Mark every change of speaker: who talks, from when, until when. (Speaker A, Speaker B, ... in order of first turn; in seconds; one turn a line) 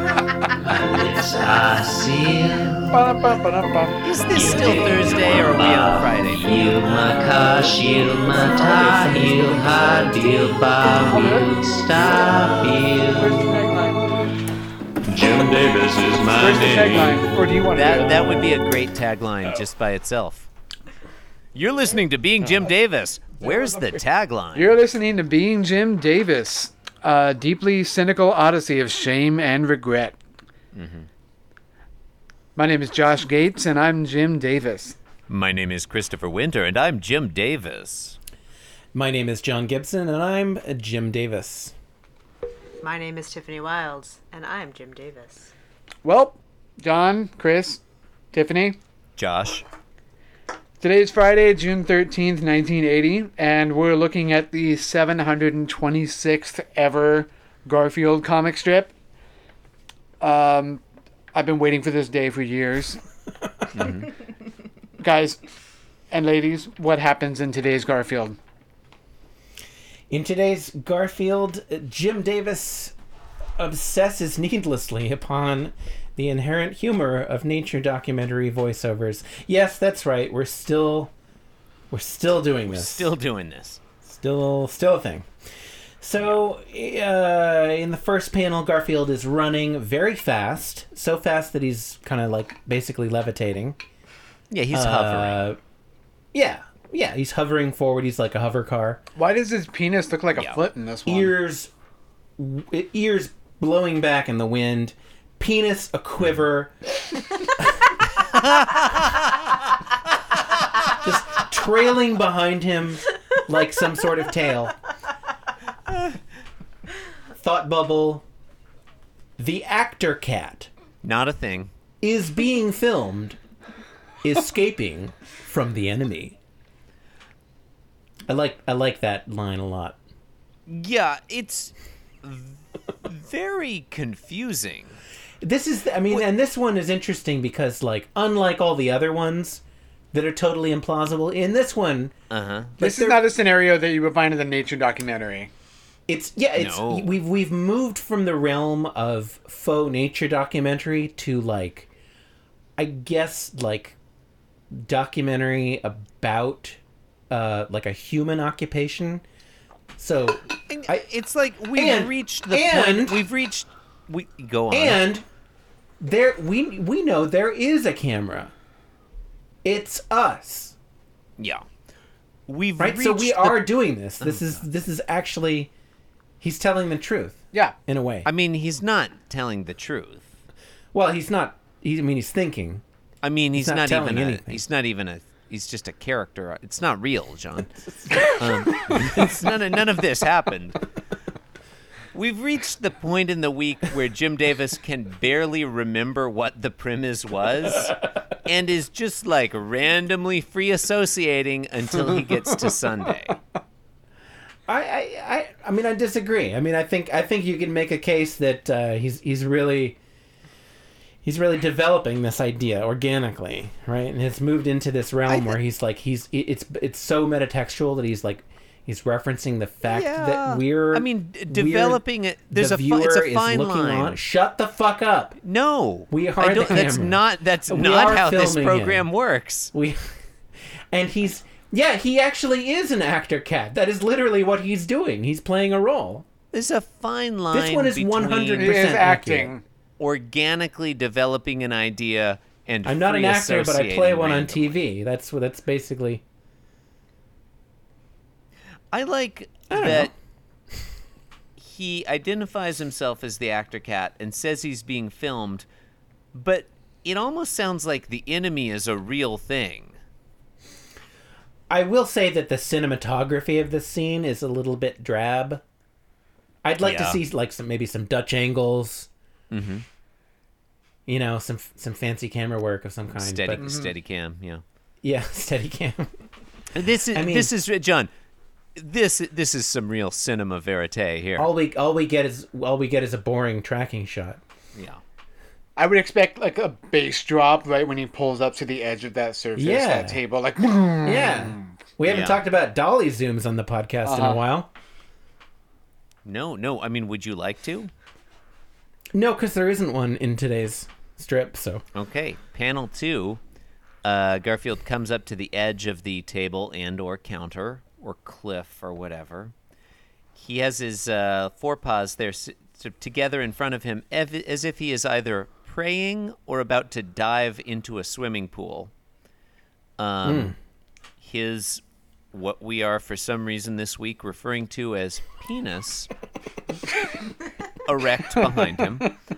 Speaker A: 0.6-3.0
Speaker B: 2.9-4.3
Speaker A: 4.0-13.6
Speaker C: 8.6-10.3
Speaker B: 11.0-11.5
Speaker B: 13.2-14.1
Speaker D: 15.1-17.1
Speaker B: 16.3-18.5
Speaker A: 17.7-20.5
Speaker A: 21.5-24.8
Speaker B: 24.6-30.2
Speaker A: 30.7-31.1
Speaker B: 32.6-35.0
Speaker A: 35.3-38.2
Speaker C: 38.9-41.7
Speaker E: 42.8-45.5
Speaker B: 46.0-47.8
Speaker B: 48.3-48.8
Speaker A: 49.2-49.6
Speaker B: 50.8-58.9
Speaker B: 60.2-60.8
Speaker B: 61.3-63.0
Speaker A: 63.8-64.1
Speaker B: 65.0-65.4
Speaker B: 66.1-68.4
Speaker C: 70.1-72.9
Speaker C: 73.6-81.1
Speaker C: 81.9-83.1
Speaker A: 82.7-83.8
Speaker C: 84.0-85.3
Speaker C: 86.0-93.8
Speaker A: 94.5-95.4
Speaker C: 94.7-95.6
Speaker C: 96.3-99.0
Speaker B: 99.2-101.3
Speaker A: 100.3-100.6
Speaker C: 101.1-101.7
Speaker C: 102.4-106.7
Speaker A: 108.3-109.2
Speaker C: 111.0-114.8
Speaker C: 117.3-118.2
Speaker C: 119.4-120.7
Speaker A: 121.0-121.7
Speaker C: 122.0-123.4
Speaker C: 124.2-126.4
Speaker C: 128.3-130.0
Speaker A: 130.7-135.0
Speaker C: 135.4-142.1
Speaker A: 142.3-142.7
Speaker C: 142.8-143.2
Speaker B: 142.8-145.5
Speaker C: 146.1-151.9
Speaker A: 146.6-147.2
Speaker C: 152.8-154.0
Speaker C: 154.7-156.8
Speaker C: 157.3-159.2
Speaker C: 160.0-161.0
Speaker A: 160.7-165.0
Speaker C: 161.7-163.2
Speaker C: 164.7-165.2
Speaker C: 166.0-168.5
Speaker C: 169.6-170.8
Speaker A: 171.4-171.6
Speaker A: 172.5-174.6
Speaker C: 172.8-175.7
Speaker C: 176.4-178.3
Speaker A: 178.2-180.3
Speaker C: 180.9-182.8
Speaker A: 183.2-190.8
Speaker C: 183.6-184.6
Speaker A: 192.1-203.4
Speaker C: 204.7-210.0
Speaker C: 211.2-225.4
Speaker A: 215.3-215.6
Speaker A: 219.8-224.2
Speaker A: 225.4-229.7
Speaker C: 226.1-229.1
Speaker C: 229.7-230.0
Speaker C: 230.9-236.3
Speaker A: 236.5-238.8
Speaker C: 237.5-239.5
Speaker B: 238.5-239.6
Speaker A: 240.0-244.8
Speaker C: 242.8-246.2
Speaker A: 248.9-250.1
Speaker C: 249.7-250.1
Speaker A: 251.6-255.7
Speaker A: 256.3-260.0
Speaker C: 261.7-265.6
Speaker C: 266.6-269.1
Speaker A: 266.8-267.2
Speaker A: 269.5-269.9
Speaker C: 271.1-273.6
Speaker A: 273.1-274.6
Speaker B: 273.6-273.9
Speaker C: 275.0-276.1
Speaker A: 276.7-278.1
Speaker C: 277.1-277.5
Speaker A: 278.8-281.5
Speaker C: 281.4-284.4
Speaker A: 284.8-285.0
Speaker B: 285.8-291.7
Speaker C: 289.6-290.2
Speaker C: 291.0-294.7
Speaker A: 292.0-292.4
Speaker B: 294.1-294.4
Speaker A: 296.2-297.9
Speaker C: 299.1-301.8
Speaker A: 301.9-303.4
Speaker A: 304.0-309.5
Speaker A: 310.4-318.9
Speaker A: 320.0-320.6
Speaker C: 320.2-320.6
Speaker A: 321.2-326.1
Speaker A: 327.9-329.1
Speaker B: 328.7-329.0